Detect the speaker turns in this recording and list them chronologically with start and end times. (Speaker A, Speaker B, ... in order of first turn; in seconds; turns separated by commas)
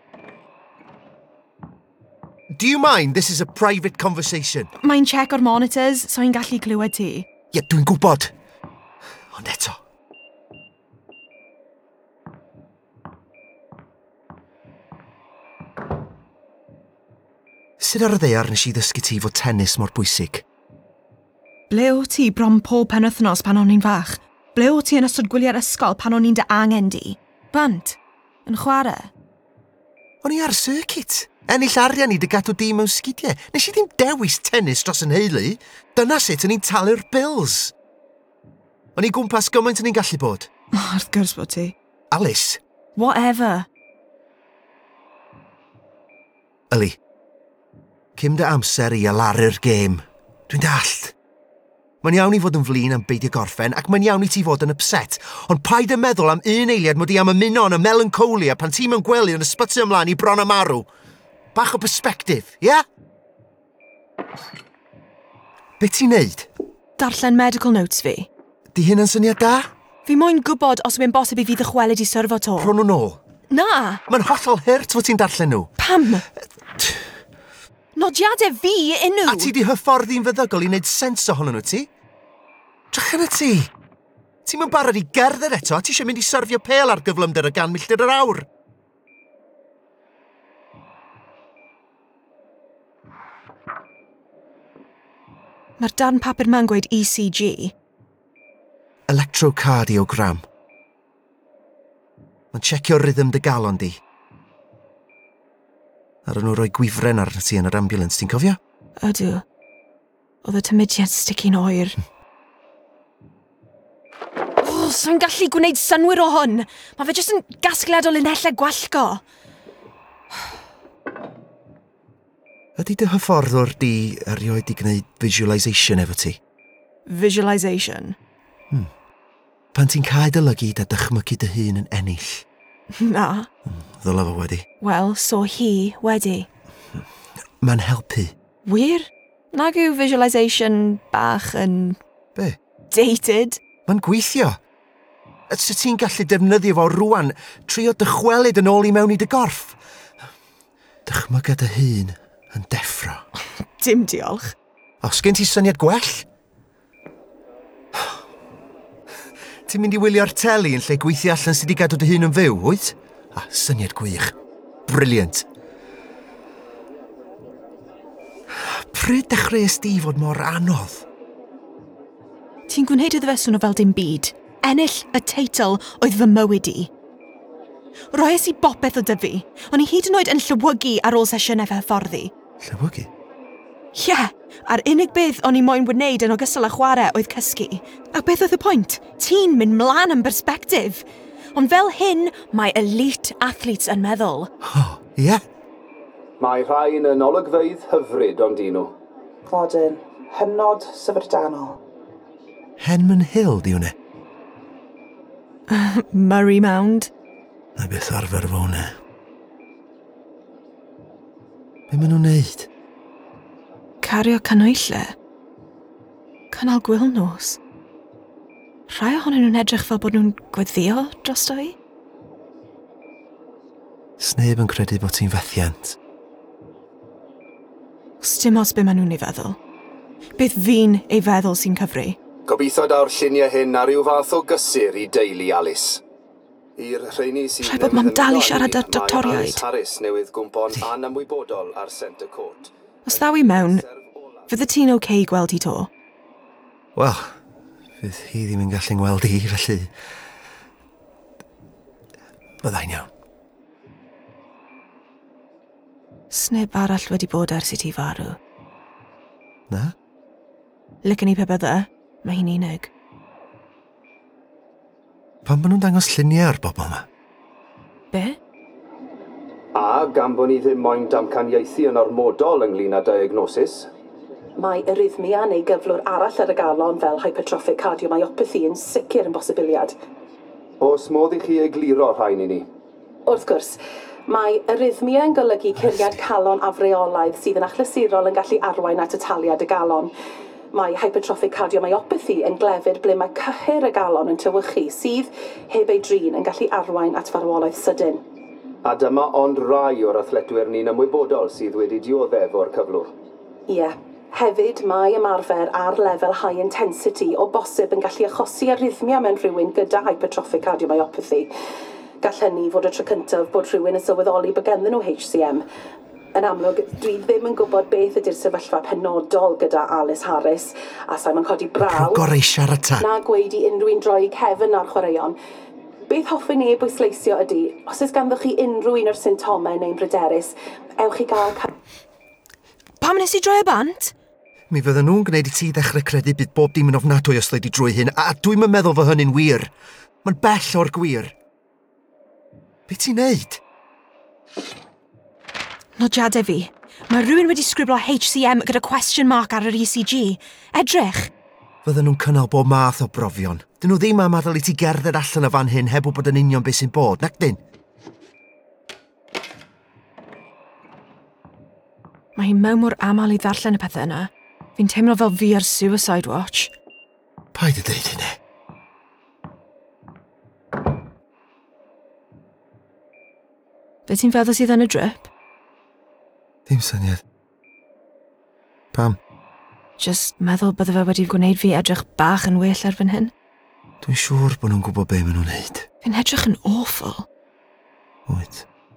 Speaker A: 2.5-4.7, Speaker B: 4.8-7.3, Speaker A: 7.5-8.3, Speaker A: 9.3-9.8, Speaker A: 17.8-20.4, Speaker B: 21.7-29.1, Speaker A: 30.2-37.7, Speaker A: 38.9-40.5, Speaker B: 40.7-41.7, Speaker A: 42.1-42.6, Speaker B: 43.0-43.7, Speaker A: 46.7-47.0, Speaker A: 48.1-51.1, Speaker A: 52.0-60.9, Speaker A: 61.5-62.8, Speaker A: 65.8-66.5, Speaker B: 67.0-68.3, Speaker A: 68.7-69.7, Speaker B: 70.0-72.7, Speaker A: 72.6-73.2, Speaker B: 73.5-74.0, Speaker A: 74.1-75.7, Speaker B: 75.8-76.2, Speaker A: 76.7-77.1, Speaker B: 77.9-79.5, Speaker A: 79.3-81.9, Speaker A: 82.9-83.7, Speaker A: 84.4-88.5, Speaker B: 95.8-97.7, Speaker A: 99.1-100.4, Speaker A: 102.5-104.0, Speaker A: 106.2-108.6, Speaker B: 109.0-109.4, Speaker B: 110.4-112.0, Speaker B: 114.6-119.2, Speaker A: 122.8-126.4, Speaker B: 127.0-128.2, Speaker A: 129.7-132.4, Speaker B: 132.9-133.5, Speaker A: 133.7-134.7, Speaker B: 134.8-136.5, Speaker A: 137.6-138.3, Speaker B: 138.6-142.0, Speaker B: 142.9-143.6, Speaker A: 143.8-144.6, Speaker A: 145.5-149.8, Speaker A: 151.1-153.2, Speaker B: 153.8-154.5, Speaker A: 155.0-156.2, Speaker A: 159.7-164.3, Speaker A: 164.9-165.4, Speaker A: 168.5-171.1, Speaker B: 172.7-176.9, Speaker B: 178.1-182.3, Speaker A: 182.6-183.1, Speaker B: 183.9-194.5, Speaker A: 194.6-195.4, Speaker C: 196.4-198.9, Speaker D: 199.5-201.8, Speaker A: 202.8-203.9, Speaker B: 205.7-207.1, Speaker A: 207.8-208.9, Speaker A: 211.9-212.7, Speaker B: 214.0-215.2, Speaker B: 216.5-217.6, Speaker B: 218.9-221.8, Speaker A: 224.2-226.0, Speaker B: 228.2-229.6, Speaker B: 230.4-232.2, Speaker C: 232.4-236.0, Speaker C: 236.8-244.5, Speaker B: 237.6-239.6, Speaker B: 243.1-243.8, Speaker B: 244.5-245.9, Speaker A: 246.9-247.4, Speaker A: 248.0-249.9, Speaker A: 252.6-253.1, Speaker B: 256.3-258.4, Speaker A: 259.7-259.9, Speaker B: 261.0-262.9, Speaker A: 265.4-267.1, Speaker B: 268.1-268.4, Speaker C: 269.7-273.9, Speaker E: 274.6-279.9, Speaker C: 280.8-282.6, Speaker E: 283.3-290.1, Speaker A: 285.8-286.2, Speaker E: 290.7-298.2, Speaker C: 298.8-303.1, Speaker E: 303.7-311.5, Speaker E: 312.2-315.6, Speaker E: 316.3-322.2, Speaker A: 321.8-323.1, Speaker E: 323.0-325.4, Speaker E: 326.1-331.7, Speaker B: 333.0-334.1, Speaker A: 334.7-339.7, Speaker A: 340.2-341.3, Speaker A: 342.9-343.6, Speaker B: 346.0-351.3, Speaker A: 351.8-357.6, Speaker B: 362.3-366.7, Speaker A: 367.5-368.4, Speaker B: 374.1-375.3, Speaker A: 376.7-377.2, Speaker A: 378.9-379.2, Speaker B: 380.0-383.3, Speaker A: 384.0-385.9, Speaker B: 386.0-387.3, Speaker A: 388.2-388.6